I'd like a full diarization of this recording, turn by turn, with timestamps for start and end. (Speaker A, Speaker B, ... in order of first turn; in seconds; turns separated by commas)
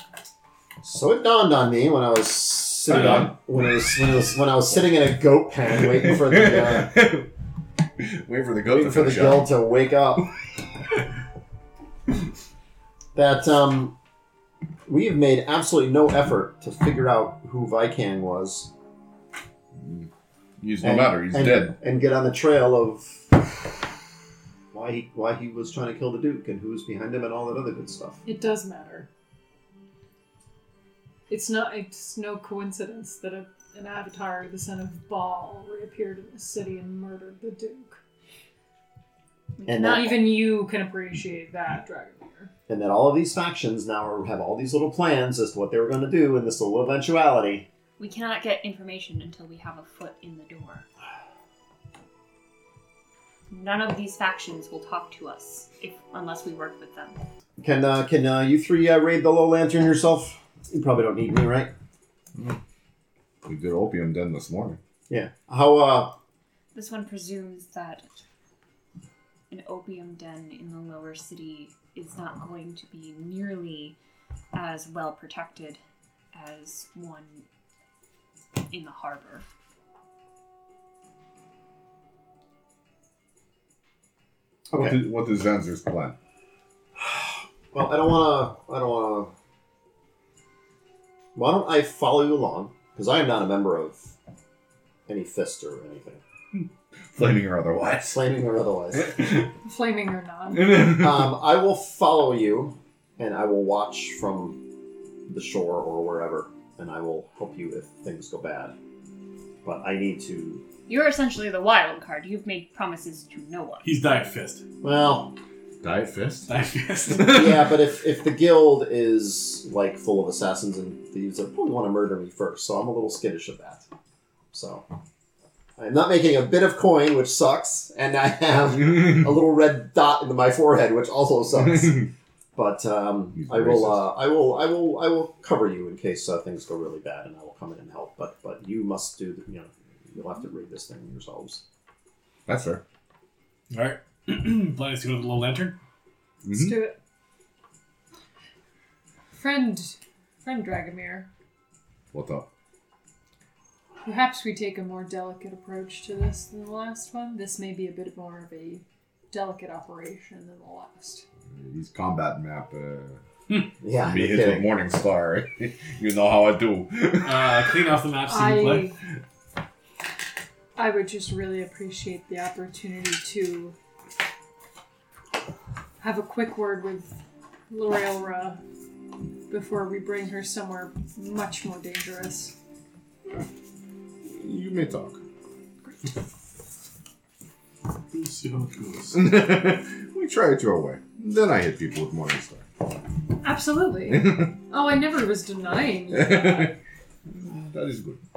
Speaker A: 0.8-7.1, Speaker B: 2.9-3.3, Speaker B: 6.0-7.3, Speaker B: 8.0-9.5, Speaker A: 8.7-10.3, Speaker A: 13.1-13.9, Speaker A: 14.9-18.7, Speaker B: 19.8-20.1, Speaker B: 20.6-21.7, Speaker A: 20.8-23.7, Speaker A: 24.7-28.2, Speaker C: 28.2-29.1, Speaker C: 31.3-38.0, Speaker D: 39.6-40.4, Speaker A: 39.7-40.2, Speaker C: 39.9-42.5, Speaker A: 42.7-47.7, Speaker D: 48.0-50.9, Speaker D: 53.5-57.2, Speaker A: 57.6-61.7, Speaker B: 63.4-64.8, Speaker A: 65.1-66.2, Speaker D: 66.7-68.0, Speaker D: 69.5-74.0, Speaker D: 74.5-75.8, Speaker D: 76.3-77.4, Speaker D: 78.7-79.5, Speaker A: 84.7-85.0, Speaker B: 84.7-86.2, Speaker A: 87.0-89.3, Speaker A: 91.3-94.1, Speaker A: 95.1-96.2, Speaker B: 97.1-98.2, Speaker A: 98.1-99.2, Speaker C: 99.6-100.8, Speaker B: 100.6-101.3, Speaker A: 100.8-104.6, Speaker A: 105.3-108.7, Speaker A: 109.6-110.6, Speaker D: 110.9-113.8, Speaker E: 113.8-114.6, Speaker A: 114.8-115.3, Speaker B: 115.8-116.5, Speaker E: 116.5-117.7, Speaker A: 117.2-123.8, Speaker A: 124.5-124.8, Speaker A: 125.8-141.6, Speaker B: 133.3-134.1, Speaker B: 142.4-142.8, Speaker E: 143.7-145.8, Speaker B: 146.4-146.8, Speaker C: 146.5-146.9, Speaker C: 149.3-151.3, Speaker B: 152.1-152.5, Speaker C: 154.0-161.2, Speaker B: 161.5-163.2, Speaker A: 163.8-164.7, Speaker B: 163.9-167.6, Speaker E: 167.2-168.9, Speaker C: 168.3-169.0, Speaker C: 170.8-173.7, Speaker C: 176.0-177.2, Speaker C: 177.7-178.6, Speaker C: 179.5-182.6, Speaker B: 184.2-185.2, Speaker E: 188.1-189.3, Speaker B: 189.1-192.7, Speaker C: 193.4-196.8, Speaker B: 196.1-196.7, Speaker B: 197.3-198.2